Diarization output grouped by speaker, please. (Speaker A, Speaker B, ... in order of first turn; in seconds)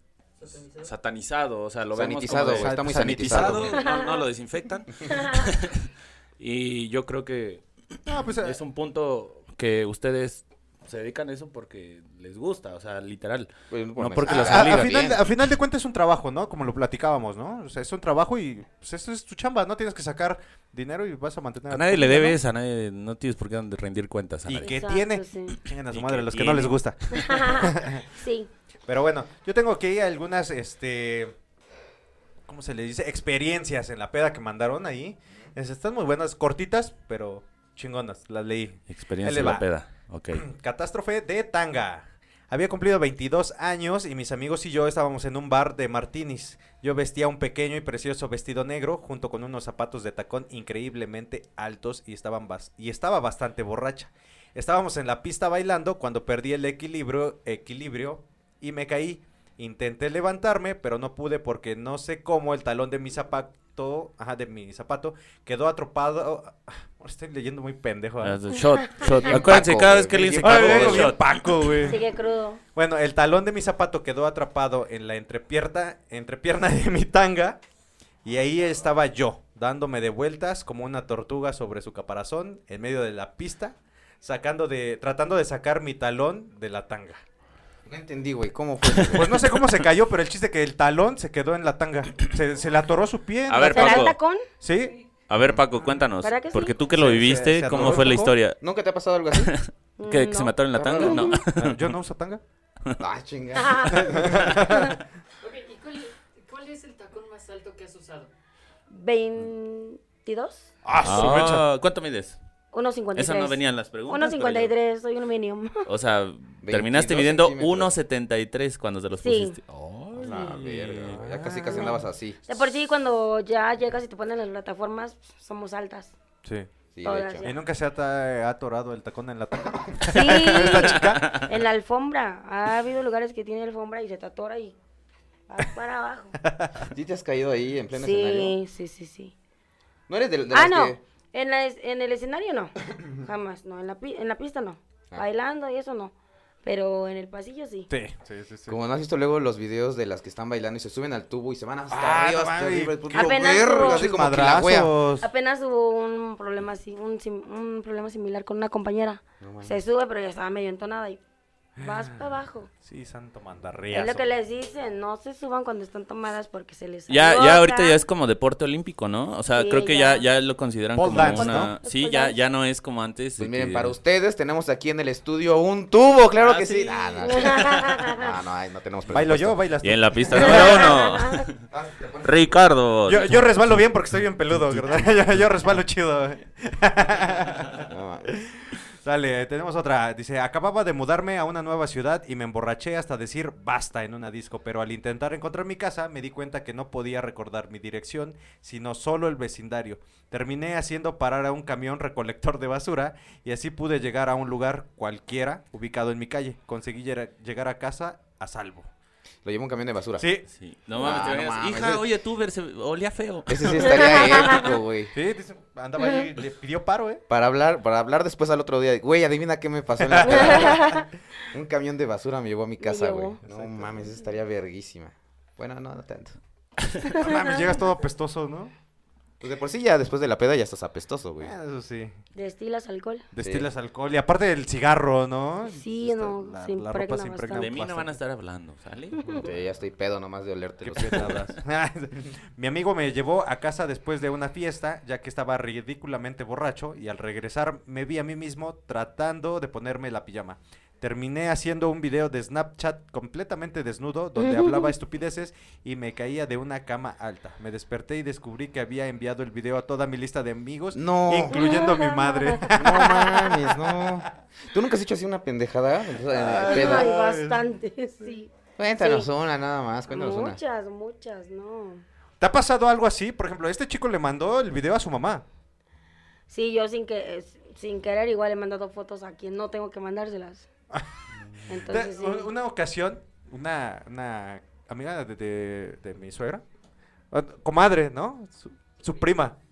Speaker A: 0.4-0.9, 105.4-108.3
Speaker B: 0.7-15.2, 21.7-24.7, 25.9-27.4, 38.9-40.5, 68.2-71.8, 88.9-89.5, 93.5-94.2, 95.3-98.6, 99.3-101.9, 111.0-112.4, 113.2-114.7, 115.9-121.2, 130.9-131.3, 167.1-173.9, 176.5-176.8, 179.8-181.5, 182.2-183.5, 210.5-214.4, 237.5-239.3
Speaker C: 1.9-3.8, 13.7-15.2, 69.1-71.2, 87.9-89.4, 97.7-98.1, 98.6-99.5, 100.7-101.4, 103.0-104.5, 116.6-117.9, 120.1-122.4, 126.9-127.5, 136.9-138.6, 140.1-141.0, 148.7-155.0, 159.4-159.8, 173.4-179.6, 181.7-182.5, 187.9-188.3, 209.4-210.3, 210.9-212.0, 213.5-215.1, 217.3-220.9, 221.5-226.4, 229.4-231.5, 233.4-233.7, 239.3-241.5, 260.9-261.7, 262.7-267.1, 268.8-270.6
Speaker D: 2.3-3.8, 8.1-8.6, 14.3-22.4, 24.5-28.1, 28.9-31.4, 32.5-39.7, 40.3-68.4, 70.4-72.0, 72.8-77.6, 78.2-87.2, 89.1-95.0, 96.9-98.3, 101.6-102.4, 103.9-105.0, 110.8-111.6, 121.1-122.0, 126.4-126.7, 127.4-131.5, 136.5-136.9, 147.9-148.8, 151.9-155.3, 161.8-162.2, 162.8-164.3, 171.0-171.8, 179.1-181.0, 183.1-208.9, 210.2-210.4, 215.1-217.2, 220.0-220.9, 223.5-224.1, 227.1-228.7, 231.4-232.2, 233.3-238.2, 240.8-264.2, 266.2-267.6, 272.4-275.4, 281.7-286.6, 287.3-289.6
Speaker E: 3.8-4.1, 5.1-5.5, 24.6-25.6, 27.1-28.5, 71.8-72.6, 93.7-94.5, 96.2-96.8, 100.0-101.4, 103.5-104.2, 108.9-110.7, 112.7-115.8, 119.2-119.6, 122.5-126.1, 127.0-127.5, 130.1-134.8, 135.5-136.4, 137.9-139.3, 140.5-146.1, 146.6-147.9, 153.1-154.1, 155.2-161.2, 161.8-162.7, 163.9-168.0, 169.6-170.2, 171.2-172.4, 177.2-178.3, 180.3-181.4, 214.2-214.6, 220.5-221.1, 222.8-223.4, 232.3-233.2, 235.7-237.7, 254.4-254.9, 261.5-262.7, 266.6-269.3, 270.1-272.0, 276.5-280.7, 281.7-282.5